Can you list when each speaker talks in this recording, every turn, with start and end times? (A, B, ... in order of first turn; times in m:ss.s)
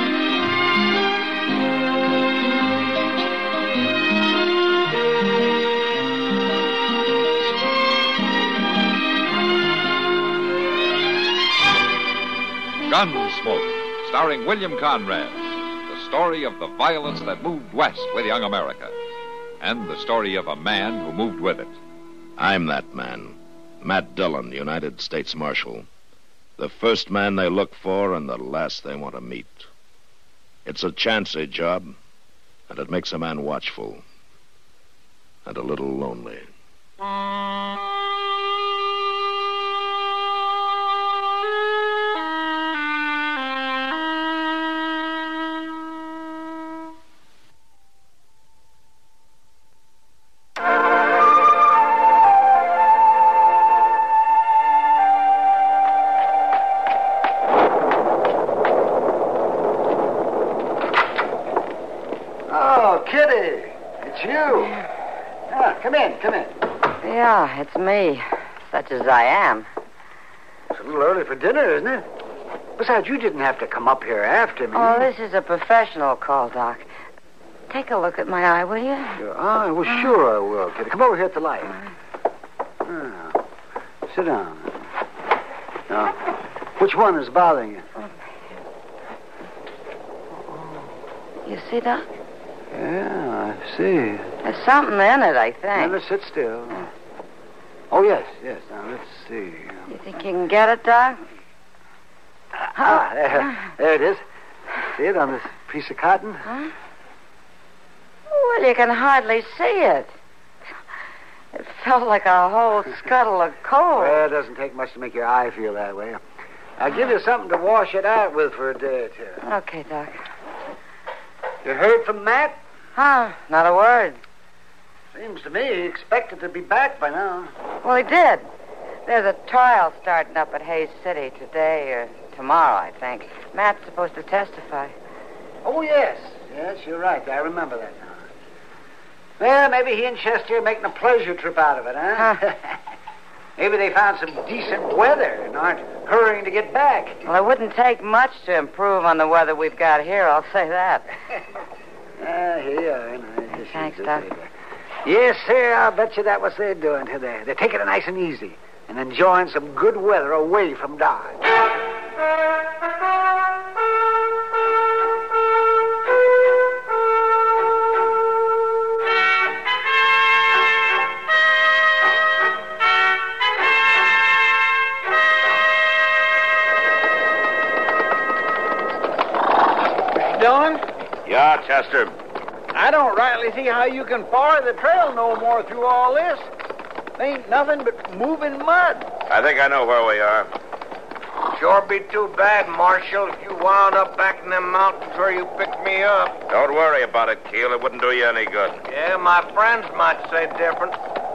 0:12.8-0:18.9 A
0:19.6-0:21.7 A
0:22.4-0:25.8 B
0:26.6-0:29.7 B
0:30.6-0:31.9 B
0:32.7-0:34.0 B
0:35.4-0:36.4 B
1:02.5-1:04.8 C
1:05.5-1:06.5 C
1:07.0-1:09.7 D
1:10.7-1:12.0 C
1:12.8-1:15.1 C
1:14.7-1:16.9 D
1:17.7-1:19.2 D
1:19.2-1:21.7 C
1:22.8-1:23.4 C
1:24.1-1:24.8 C
1:25.9-1:26.2 C
1:26.8-1:27.9 C
1:31.4-1:32.1 D
1:32.7-1:34.4 C
1:34.4-1:36.0 D
1:35.7-1:36.9 C
1:37.9-1:39.9 C
1:39.9-1:41.2 D
1:42.6-1:44.2 C
1:42.8-1:43.5 D
1:44.9-1:46.4 C
1:48.3-1:50.1 D
1:51.5-1:54.2 D
1:54.0-1:56.2 C
1:56.8-1:59.4 C
1:59.4-2:00.2 D
2:01.6-2:02.6 C
2:02.9-2:04.2 D
2:05.1-2:07.5 C
2:07.8-2:08.4 D
2:09.0-2:14.9 D
2:15.6-2:18.3 C
2:19.4-2:22.7 C
2:23.6-2:27.2 C
2:27.2-2:31.1 D
2:32.2-2:34.5 C
2:33.6-2:34.2 D
2:35.0-2:41.4 C
3:00.1-3:00.8 E
3:01.2-3:02.1 B
3:02.7-3:06.5 E
3:07.2-3:09.1 E
3:09.3-3:10.5 B
3:11.5-3:16.4 F
3:16.5-3:18.8 B
3:18.9-3:21.0 F